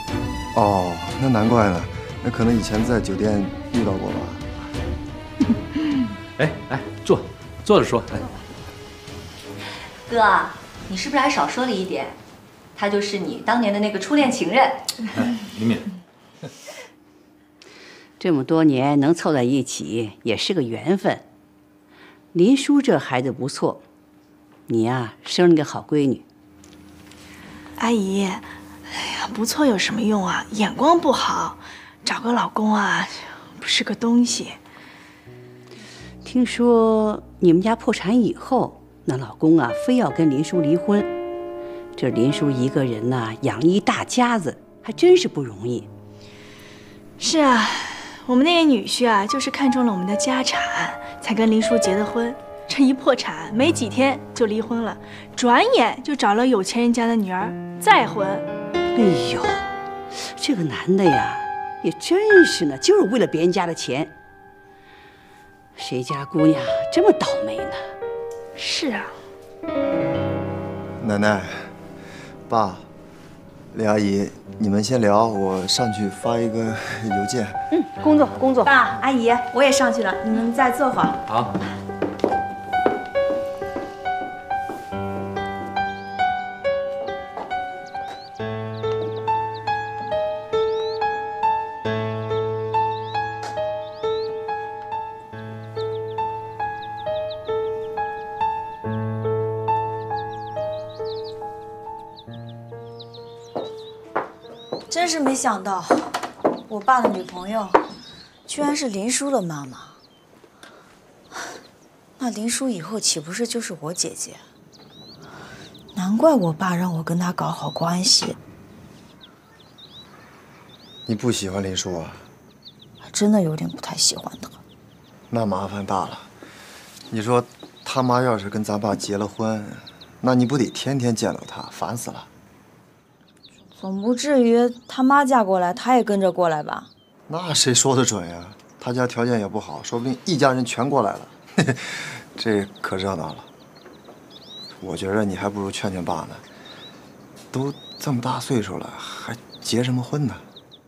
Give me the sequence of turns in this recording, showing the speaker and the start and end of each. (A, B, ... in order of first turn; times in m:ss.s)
0:00.5-0:04.4 A
0:06.4-0:08.2 B
0:10.1-0:12.2 C
0:12.8-0:14.8 C
0:15.2-0:15.9 B
0:18.2-0:21.2 D
0:22.3-0:23.8 D
0:24.7-0:26.2 D
0:27.8-0:34.6 E
0:36.2-0:41.1 D
0:42.0-0:45.9 D
0:47.2-0:58.4 E
0:58.9-1:04.1 D
1:05.8-1:07.9 D
1:08.6-1:09.1 E
1:11.0-1:11.7 A
1:12.5-1:12.8 A
1:13.7-1:17.6 A
1:17.7-1:18.7 D
1:18.6-1:21.2 F
1:21.3-1:21.5 B
1:44.9-1:46.1 F
1:46.7-1:47.8 F
1:48.5-1:50.0 F
1:52.2-1:54.4 F
1:55.9-1:58.4 F
2:01.1-2:02.2 A
2:03.0-2:04.6 F
2:05.3-2:06.3 A
2:07.1-2:12.3 A
2:13.7-2:16.9 F
2:17.3-2:23.5 A
2:24.8-2:26.4 A
2:27.5-2:30.4 A